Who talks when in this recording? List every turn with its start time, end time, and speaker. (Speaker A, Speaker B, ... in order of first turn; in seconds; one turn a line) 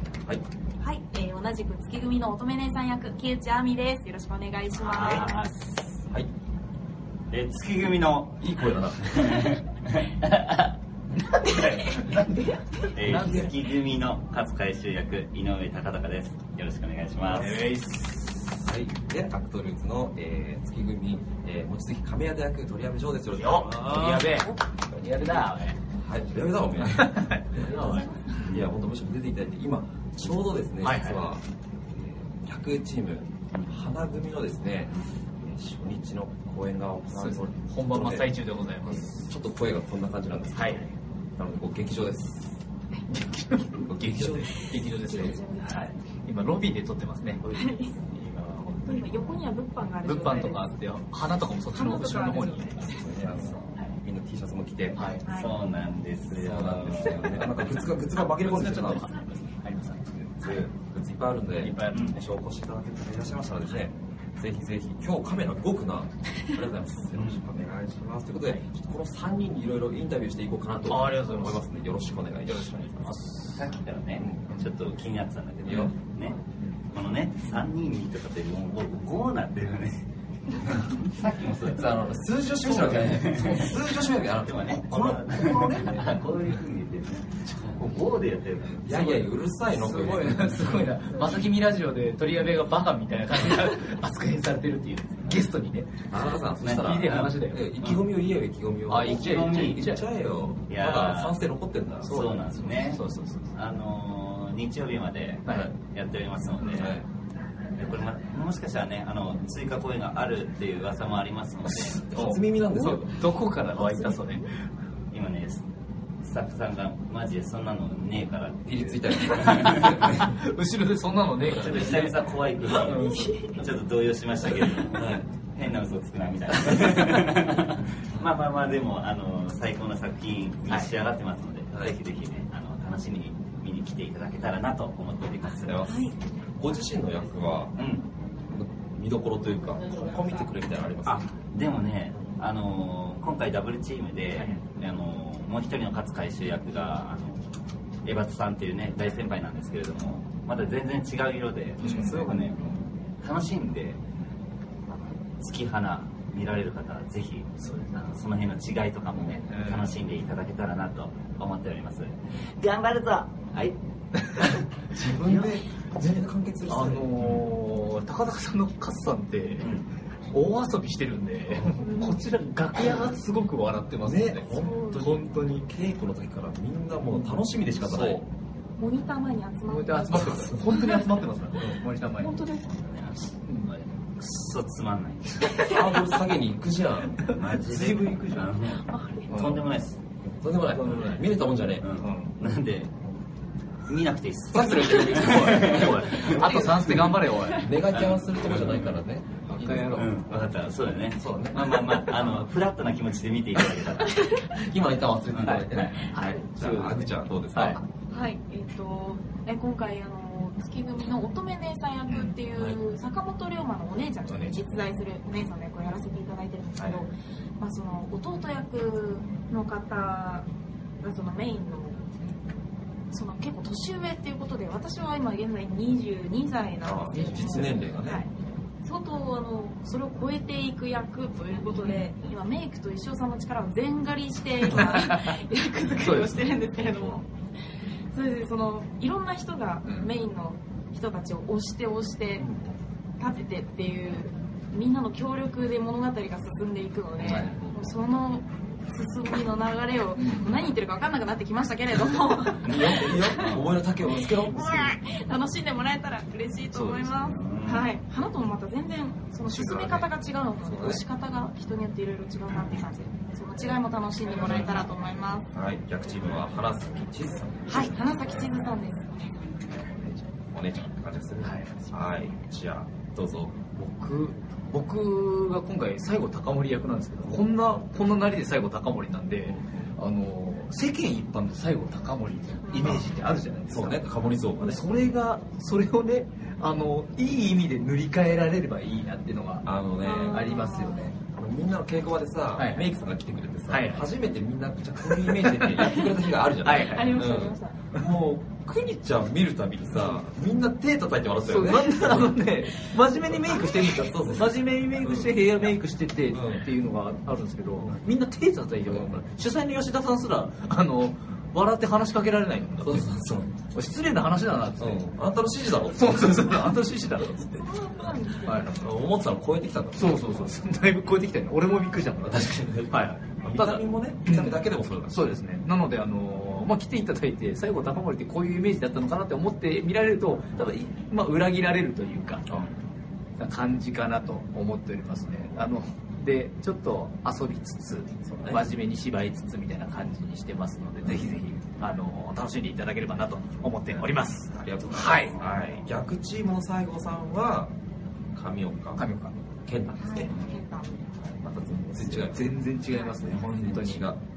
Speaker A: 0.8-5.4
Speaker B: 4.8-5.7
Speaker C: 4.9-5.3
Speaker B: 7.3-8.5
Speaker C: 8.4-9.5
Speaker B: 9.1-10.7
Speaker D: 11.3-13.5
Speaker A: 11.4-12.8
Speaker B: 12.9-17.6
Speaker C: 13.0-13.5
Speaker C: 17.2-17.8
Speaker D: 17.3-18.3
Speaker C: 18.5-24.5
Speaker D: 23.4-25.8
Speaker C: 25.0-25.3
Speaker C: 26.0-27.9
Speaker D: 26.9-28.1
Speaker A: 27.8-28.4
Speaker B: 28.4-28.7
Speaker C: 28.4-42.6
Speaker D: 30.8-31.3
Speaker D: 37.1-39.3
Speaker D: 40.5-40.9
Speaker D: 43.1-47.5
Speaker C: 43.7-45.2
Speaker A: 45.0-45.9
Speaker A: 47.5-47.9
Speaker D: 48.1-49.4
Speaker A: 48.8-50.7
Speaker D: 50.0-52.9
Speaker A: 51.7-53.0
Speaker C: 52.8-55.0
Speaker D: 54.9-55.3
Speaker A: 55.2-55.5
Speaker B: 55.3-57.6
Speaker C: 56.4-59.1
Speaker D: 58.1-60.2
Speaker C: 60.4-73.2
Speaker D: 61.6-62.1
Speaker B: 61.9-62.2
Speaker D: 70.9-71.7
Speaker D: 72.5-73.6
Speaker B: 73.5-76.4
Speaker C: 74.2-74.6
Speaker C: 75.6-76.0
Speaker B: 76.9-80.0
Speaker B: 80.6-89.2
Speaker C: 81.7-86.0
Speaker C: 88.8-90.9
Speaker D: 88.9-96.2
Speaker C: 96.1-102.2
Speaker B: 96.6-98.1
Speaker D: 96.8-97.7
Speaker D: 98.9-100.0
Speaker B: 99.0-99.9
Speaker B: 100.7-101.4
Speaker B: 102.0-103.0
Speaker D: 102.0-103.5
Speaker B: 103.5-107.0
Speaker D: 105.4-105.7
Speaker C: 106.7-107.0
Speaker B: 107.8-112.0
Speaker C: 111.7-113.2
Speaker D: 112.1-114.5
Speaker B: 115.1-115.6
Speaker B: 116.2-120.1
Speaker C: 118.7-120.3
Speaker D: 119.2-123.2
Speaker B: 121.4-135.8
Speaker C: 122.7-123.3
Speaker A: 122.9-123.6
Speaker C: 124.9-125.2
Speaker D: 130.7-130.9
Speaker C: 135.6-137.8
Speaker A: 135.9-136.1
Speaker B: 137.8-138.1
Speaker C: 138.5-141.3
Speaker B: 141.0-147.4
Speaker B: 148.0-154.0
Speaker D: 151.8-152.4
Speaker B: 155.4-157.5
Speaker D: 157.6-158.2
Speaker B: 158.0-163.8
Speaker D: 159.5-159.9
Speaker C: 164.9-167.3
Speaker D: 166.7-169.7
Speaker B: 169.6-169.9
Speaker D: 170.3-175.7
Speaker A: 171.8-172.2
Speaker C: 174.0-178.3
Speaker A: 174.5-175.1
Speaker D: 177.1-177.4
Speaker B: 177.8-178.2
Speaker A: 178.8-181.1
Speaker D: 179.7-182.4
Speaker C: 180.1-180.8
Speaker A: 182.1-182.8
Speaker B: 182.8-185.5
Speaker D: 183.4-183.8
Speaker A: 185.5-185.8
Speaker C: 185.6-187.3
Speaker D: 187.2-188.6
Speaker B: 187.3-190.0
Speaker A: 188.7-189.4
Speaker D: 189.3-189.6
Speaker C: 190.2-192.0
Speaker D: 190.7-191.3
Speaker B: 191.8-193.0
Speaker D: 192.0-192.3
Speaker B: 193.9-196.6
Speaker C: 194.5-200.1
Speaker D: 195.2-197.8
Speaker B: 197.9-199.0
Speaker D: 199.5-200.2
Speaker B: 199.9-204.2
Speaker C: 201.2-202.3
Speaker C: 203.6-203.9
Speaker A: 204.1-204.4
Speaker C: 204.5-207.8
Speaker B: 205.3-205.9
Speaker D: 206.0-207.8
Speaker A: 208.1-220.5
Speaker D: 212.1-212.3
Speaker C: 214.2-214.9
Speaker D: 216.8-217.1
Speaker A: 221.0-222.0
Speaker A: 223.1-228.3
Speaker C: 226.8-228.2
Speaker D: 227.1-227.8
Speaker A: 228.8-237.3
Speaker D: 234.8-235.3
Speaker D: 235.9-237.1
Speaker A: 238.1-242.4
Speaker D: 239.8-240.1
Speaker C: 242.3-242.8
Speaker A: 243.2-253.5
Speaker C: 247.2-247.9
Speaker D: 247.2-247.5
Speaker D: 250.2-250.6
Speaker B: 252.6-253.7
Speaker C: 252.6-255.0
Speaker A: 254.1-265.5
Speaker B: 256.7-257.9
Speaker C: 259.4-261.0
Speaker C: 265.5-268.6
Speaker A: 267.7-269.5
Speaker C: 270.5-273.5
Speaker D: 271.4-271.7
Speaker D: 273.7-284.0
Speaker C: 279.4-279.9
Speaker A: 282.7-282.9
Speaker C: 282.8-283.1
Speaker C: 283.7-284.8
Speaker D: 284.6-289.7
Speaker C: 289.6-290.6
Speaker A: 290.0-291.1
Speaker D: 290.2-291.2
Speaker C: 291.2-302.4
Speaker D: 292.6-292.9
Speaker D: 293.7-294.1
Speaker D: 295.1-296.0
Speaker A: 295.9-296.1
Speaker D: 296.6-297.2
Speaker A: 296.8-297.9
Speaker D: 301.4-315.1
Speaker C: 303.0-305.8
Speaker C: 306.3-306.6
Speaker C: 308.8-309.2
Speaker C: 312.8-313.5
Speaker C: 314.8-316.8
Speaker D: 315.8-317.7
Speaker A: 317.6-318.8
Speaker D: 318.4-318.9
Speaker C: 318.8-320.6
Speaker D: 319.9-332.6
Speaker C: 322.3-325.4
Speaker D: 333.4-345.4
Speaker C: 338.2-338.7
Speaker C: 343.9-347.7
Speaker C: 348.3-349.0
Speaker D: 348.9-349.3
Speaker C: 349.6-350.3
Speaker A: 350.0-351.0
Speaker C: 351.3-352.5
Speaker D: 351.9-354.1
Speaker C: 353.2-354.2